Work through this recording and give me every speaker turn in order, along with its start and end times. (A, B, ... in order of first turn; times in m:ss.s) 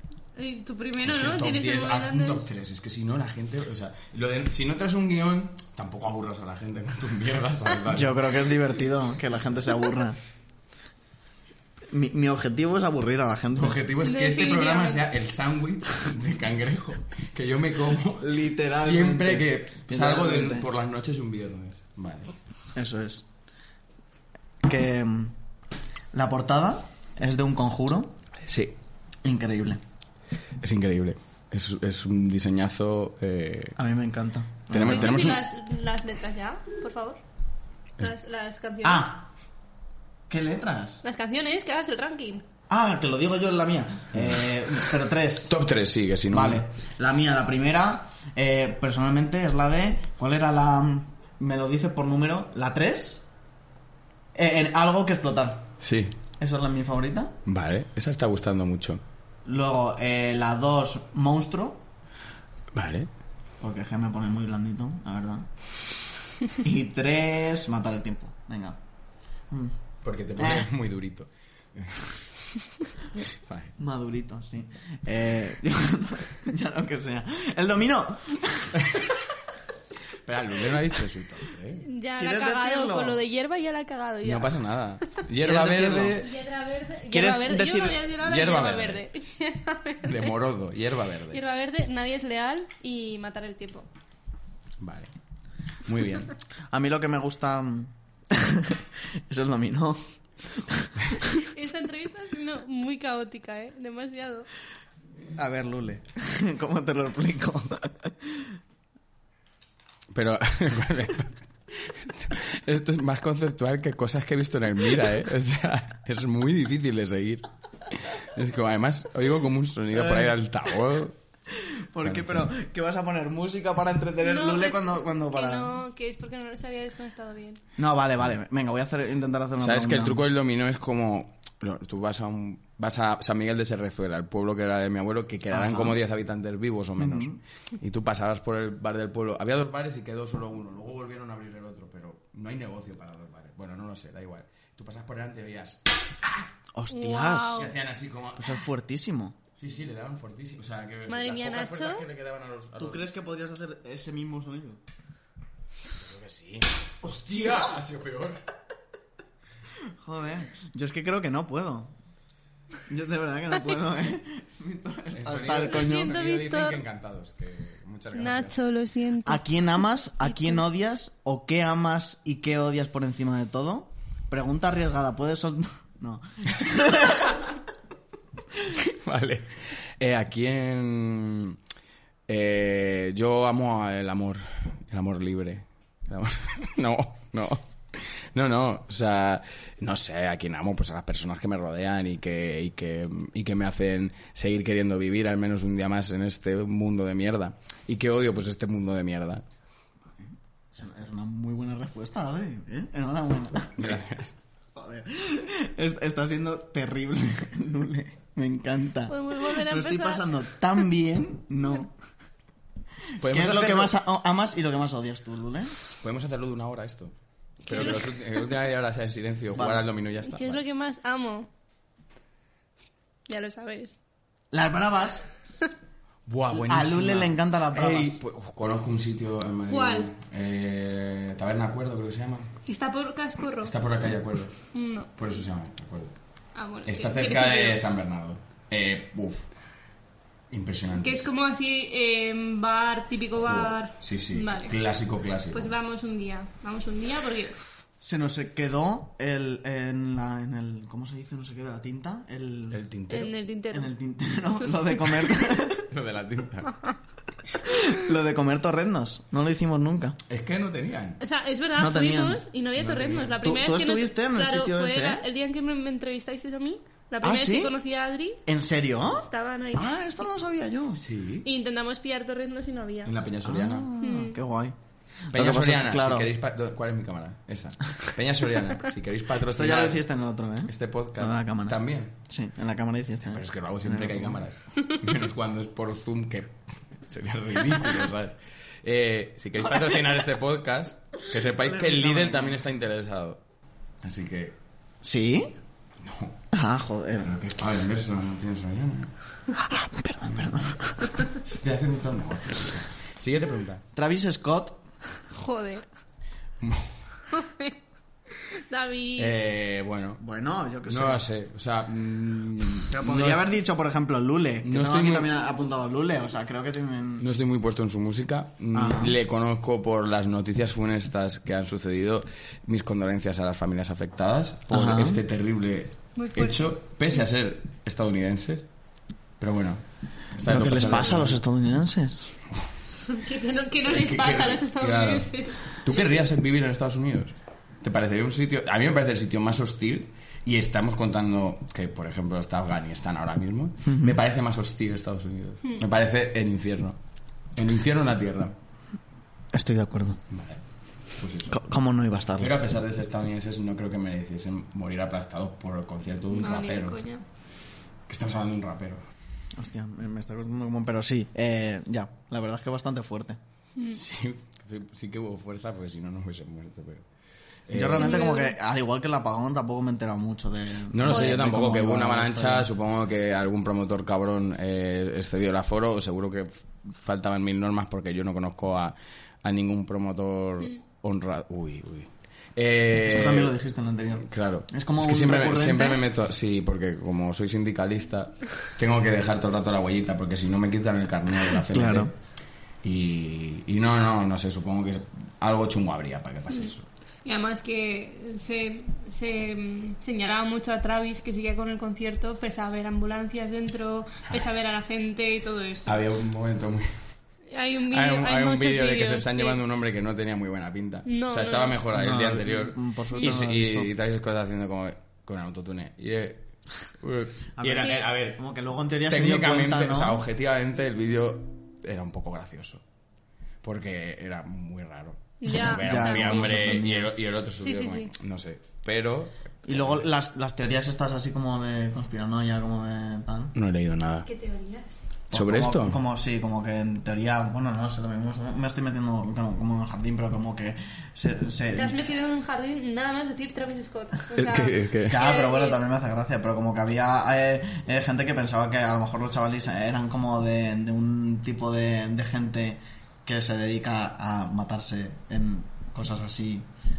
0:00.4-0:02.5 A
0:01.0-0:08.4 B
0:07.9-0:10.2 C
0:11.9-0:13.8 C
0:13.6-0:22.4 B
0:14.0-0:15.0 A
0:18.2-0:20.7 C
0:22.8-0:23.3 C
0:24.6-0:25.4 C
0:26.1-0:28.1 C
0:28.5-0:28.8 B
0:29.2-0:29.8 C
0:30.6-0:33.8 B
0:33.8-0:35.3 C
0:34.7-0:35.4 B
0:34.8-0:37.2 A
0:38.0-0:39.1 A
0:38.8-0:39.3 C
0:40.3-0:41.0 C
0:41.0-0:42.4 A
0:42.7-0:45.5 C
0:44.1-0:44.9 B
0:45.5-0:46.6 B
0:46.3-0:53.2 C
0:54.4-0:55.7 C
0:55.8-0:56.2 B
0:56.4-0:57.4 C
0:57.5-0:59.0 B
0:59.5-1:01.8 C
1:02.7-1:03.1 B
1:03.6-1:05.5 C
1:06.5-1:08.8 C
1:09.5-1:09.8 C
1:10.0-1:12.3 B
1:10.4-1:10.7 C
1:13.2-1:13.8 B
1:13.8-1:18.9 C
1:18.8-1:19.1 B
1:20.2-1:21.8 B
1:21.8-1:24.6 A
1:22.2-1:23.2 C
1:24.2-1:26.3 B
1:25.4-1:26.2 C
1:26.2-1:30.3 A
1:27.1-1:28.0 C
1:28.1-1:29.0 B
1:30.0-1:31.4 B
1:31.3-1:33.9 A
1:34.8-1:35.1 B
1:35.8-1:36.4 B
1:36.7-1:41.4 C
1:41.4-1:44.5 A
1:45.4-1:48.6 C
1:50.1-2:01.2 B
1:59.9-2:00.3 C
2:01.5-2:05.8 C
2:02.0-2:02.4 B
2:04.2-2:07.6 A
2:07.8-2:10.2 C
2:09.6-2:25.8 B
2:15.5-2:16.0 C
2:17.0-2:17.4 C
2:26.8-2:27.7 C
2:26.9-2:27.7 A
2:27.6-2:28.7 B
2:28.4-2:29.4 C
2:29.6-2:33.1 B
2:31.1-2:32.0 A
2:32.8-2:34.8 C
2:36.0-2:38.4 B
2:39.8-2:41.9 C
2:42.9-2:46.2 C
2:45.1-2:48.6 B
2:45.6-2:46.8 A
2:48.1-2:49.6 A
2:49.2-2:57.5 C
2:50.2-2:50.6 A
2:58.7-3:01.6 B
3:02.3-3:19.4 B
3:20.2-3:24.0 C
3:23.8-3:24.3 B
3:24.8-3:31.9 C
3:29.1-3:30.2 A
3:33.2-3:33.9 B
3:33.2-3:35.8 C
3:36.0-3:37.1 B
3:37.6-3:38.4 A
3:37.7-3:40.6 B
3:37.7-3:38.0 C
3:39.6-3:39.8 C
3:40.3-3:41.5 A
3:43.3-3:44.0 A
3:44.5-3:45.3 C
3:46.3-3:52.5 B
3:46.5-3:48.2 C
3:49.7-3:50.1 A
3:52.7-3:53.7 A
3:53.6-3:56.1 B
3:54.7-3:55.1 A
3:56.6-3:57.8 A
3:56.9-3:59.4 B
4:00.5-4:01.2 B
4:00.9-4:04.8 A
4:03.4-4:05.7 B
4:05.5-4:07.8 A
4:08.0-4:12.8 C
4:12.7-4:13.4 B
4:13.1-4:13.9 A
4:13.7-4:15.9 C
4:14.6-4:15.2 A
4:15.8-4:16.7 B
4:16.6-4:17.0 A
4:17.6-4:20.2 C
4:20.3-4:21.2 B
4:21.2-4:28.4 A
4:21.8-4:22.4 C
4:22.8-4:23.4 B
4:23.4-4:25.2 C
4:27.2-4:27.8 C
4:28.5-4:31.0 C
4:29.0-4:29.8 A
4:31.0-4:31.5 B
4:31.4-4:33.1 A
4:33.0-4:33.9 B
4:33.4-4:34.8 C
4:34.0-4:34.4 A
4:35.3-4:36.3 C
4:35.3-4:40.0 B
4:39.5-4:44.4 C
4:40.7-4:42.1 B
4:43.3-4:46.6 B
4:47.1-4:53.4 B
4:51.6-4:52.6 C
4:54.0-4:54.6 B
4:55.0-4:55.6 C
4:56.0-4:56.4 B
4:56.5-4:57.3 C
4:57.2-4:59.1 B
4:59.6-5:01.2 C
5:01.3-5:03.8 B
5:03.9-5:04.8 C
5:05.3-5:05.8 A
5:06.6-5:07.0 B
5:07.3-5:07.8 A
5:08.3-5:09.3 A
5:09.2-5:10.2 B
5:10.2-5:11.2 C
5:10.9-5:13.4 B
5:12.8-5:17.3 C
5:14.6-5:15.3 B
5:17.2-5:28.7 B
5:18.7-5:19.2 C
5:24.7-5:25.2 C
5:26.2-5:26.6 A
5:29.4-5:29.8 B
5:30.3-5:31.4 B
5:30.4-5:32.4 C
5:33.1-5:35.8 A
5:33.9-5:47.0 B
5:43.8-5:44.2 C
5:47.5-5:48.5 B
5:49.5-5:50.2 C
5:50.3-5:50.6 B
5:51.1-5:51.6 B
5:51.5-5:52.5 C
5:52.4-5:57.0 B
5:56.3-5:57.2 A
5:58.1-5:59.0 B
5:59.6-6:03.4 C
6:03.9-6:07.0 B
6:07.7-6:08.2 B
6:07.7-6:12.7 C
6:08.0-6:08.6 A
6:10.9-6:23.5 B
6:11.1-6:11.4 A
6:23.1-6:26.0 C
6:24.2-6:32.1 B
6:31.6-6:32.1 C
6:32.8-6:36.8 B
6:37.2-6:46.0 A
6:45.9-6:46.9 B
6:47.5-6:49.6 A
6:47.9-6:56.5 B
6:51.1-6:51.8 A
6:51.9-6:53.9 C
6:57.0-6:58.4 B
6:57.6-7:00.2 C
6:57.7-6:58.1 A
6:59.1-7:02.8 B
7:03.6-7:10.0 B
7:05.4-7:06.8 A
7:05.6-7:07.1 C
7:07.6-7:08.1 A
7:09.7-7:13.5 C
7:13.6-7:14.3 B
7:14.2-7:15.1 A
7:15.3-7:22.0 C
7:15.3-7:16.0 B
7:21.7-7:25.8 A
7:24.3-7:25.2 B
7:25.1-7:36.7 C